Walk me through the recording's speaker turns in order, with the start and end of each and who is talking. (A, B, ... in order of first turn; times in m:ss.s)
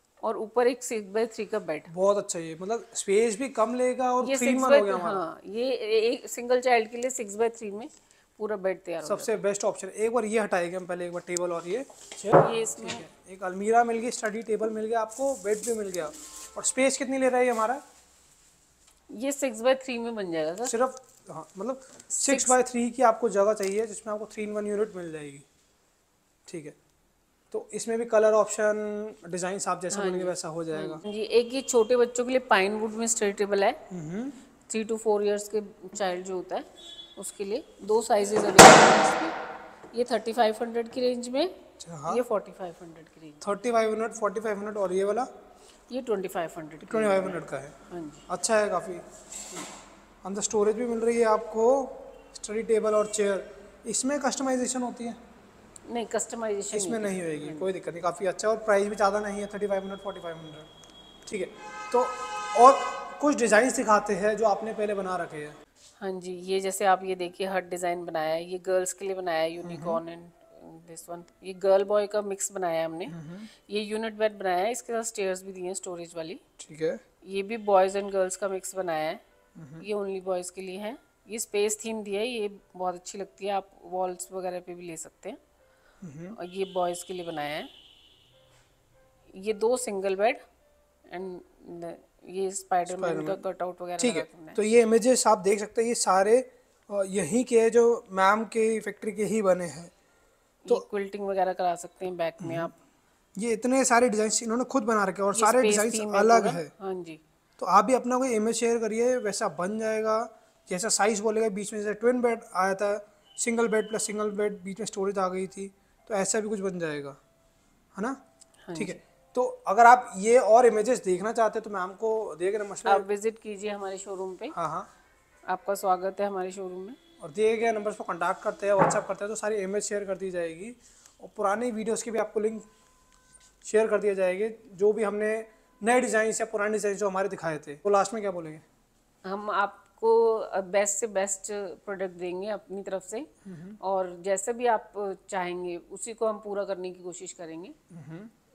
0:00.2-0:01.9 A
0:01.9-0:05.2 B
0:04.2-0:09.4 A
0:09.0-0:17.8 B
0:12.3-0:13.0 A
0:19.1-0:20.8 A
0:20.6-0:25.4 B
0:22.1-0:22.6 A
0:26.5-0:26.8 B
0:27.5-0:31.0 B
0:29.9-0:33.8 A
0:33.9-0:34.4 B
0:34.7-0:39.3 A
0:39.9-0:41.5 A
0:41.8-0:42.2 B
0:42.1-0:43.4 A
0:43.4-0:45.3 B
0:45.9-0:48.2 A
0:46.8-0:47.8 B
0:48.3-0:49.0 B
0:50.2-0:55.2 B
0:55.9-0:57.7 A
0:56.7-1:00.7 B
1:01.2-1:05.6 B
1:06.0-1:16.4 A
1:09.6-1:10.0 B
1:13.1-1:13.5 B
1:16.6-1:17.0 B
1:17.2-1:19.2 A
1:19.6-1:19.8 B
1:19.8-1:25.4 A
1:26.0-1:26.4 B
1:26.3-1:27.7 A
1:29.3-1:30.4 A
1:31.1-1:34.6 A
1:32.9-1:33.4 B
1:34.0-1:39.9 B
1:40.6-1:42.8 A
1:42.4-1:42.7 B
1:43.4-1:46.7 B
1:45.3-1:47.2 A
1:47.6-1:57.2 B
1:58.6-1:59.0 A
1:58.7-2:03.1 B
2:02.8-2:04.6 A
2:04.5-2:04.9 B
2:05.5-2:07.0 A
2:07.2-2:12.7 B
2:13.6-2:18.6 B
2:19.2-2:27.8 A
2:23.4-2:23.8 B
2:27.9-2:28.3 B